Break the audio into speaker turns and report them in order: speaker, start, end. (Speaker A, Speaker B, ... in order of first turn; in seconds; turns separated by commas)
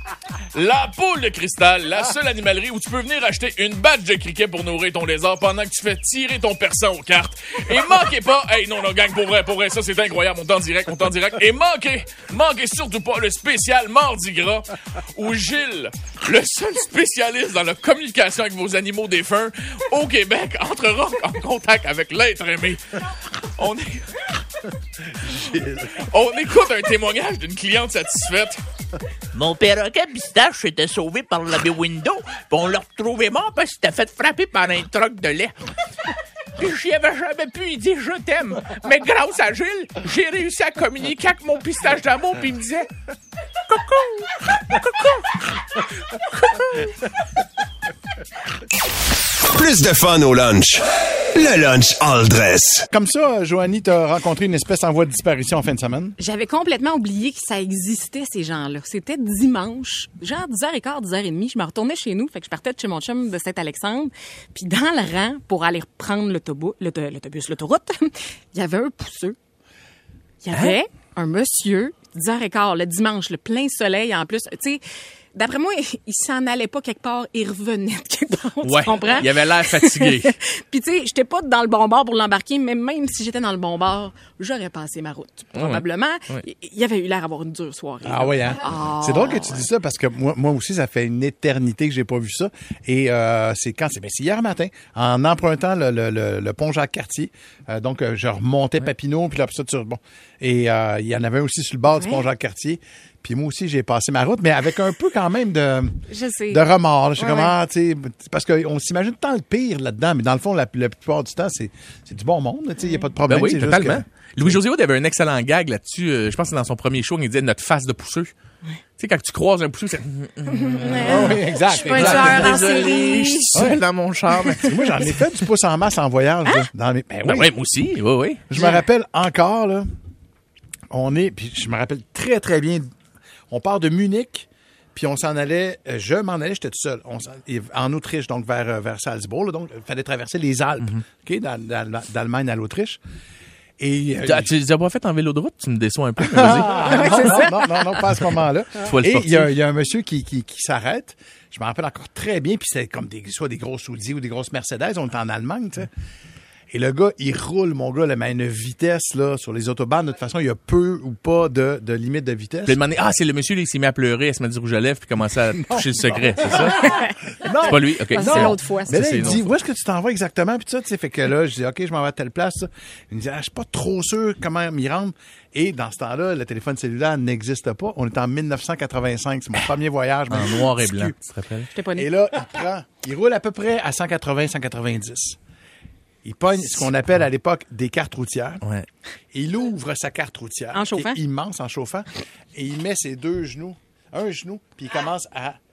Speaker A: 0.5-24.3, Speaker A: 25.3-28.6, Speaker B: 29.4-35.5, Speaker B: 36.6-42.9, Speaker C: 49.5-52.8, Speaker D: 52.9-56.2, Speaker E: 56.2-69.4, Speaker E: 70.4-74.8, Speaker E: 75.3-89.7, Speaker A: 78.6-80.3, Speaker A: 85.5-86.4, Speaker D: 88.0-106.0, Speaker E: 101.9-102.2, Speaker E: 106.1-106.6, Speaker D: 106.5-114.6, Speaker E: 107.2-107.5, Speaker E: 112.8-113.1, Speaker A: 113.3-118.3, Speaker A: 119.0-124.7, Speaker E: 120.5-123.6, Speaker D: 121.0-122.7, Speaker D: 123.5-123.8, Speaker E: 124.4-124.7, Speaker D: 124.6-127.5, Speaker A: 127.2-128.4, Speaker D: 128.5-129.9, Speaker E: 128.6-128.8, Speaker D: 130.9-132.9, Speaker D: 133.5-143.0, Speaker D: 143.8-144.5, Speaker A: 144.2-147.4, Speaker D: 146.3-155.9, Speaker E: 146.7-147.8, Speaker A: 148.8-149.5, Speaker D: 156.7-162.8, Speaker A: 162.7-166.8, Speaker D: 165.7-166.8, Speaker E: 166.5-169.4, Speaker D: 167.4-181.2, Speaker A: 167.7-169.4, Speaker A: 180.3-181.7, Speaker E: 181.7-182.1, Speaker D: 181.9-185.4, Speaker D: 186.2-188.6, Speaker D: 189.3-195.6, Speaker E: 190.7-191.2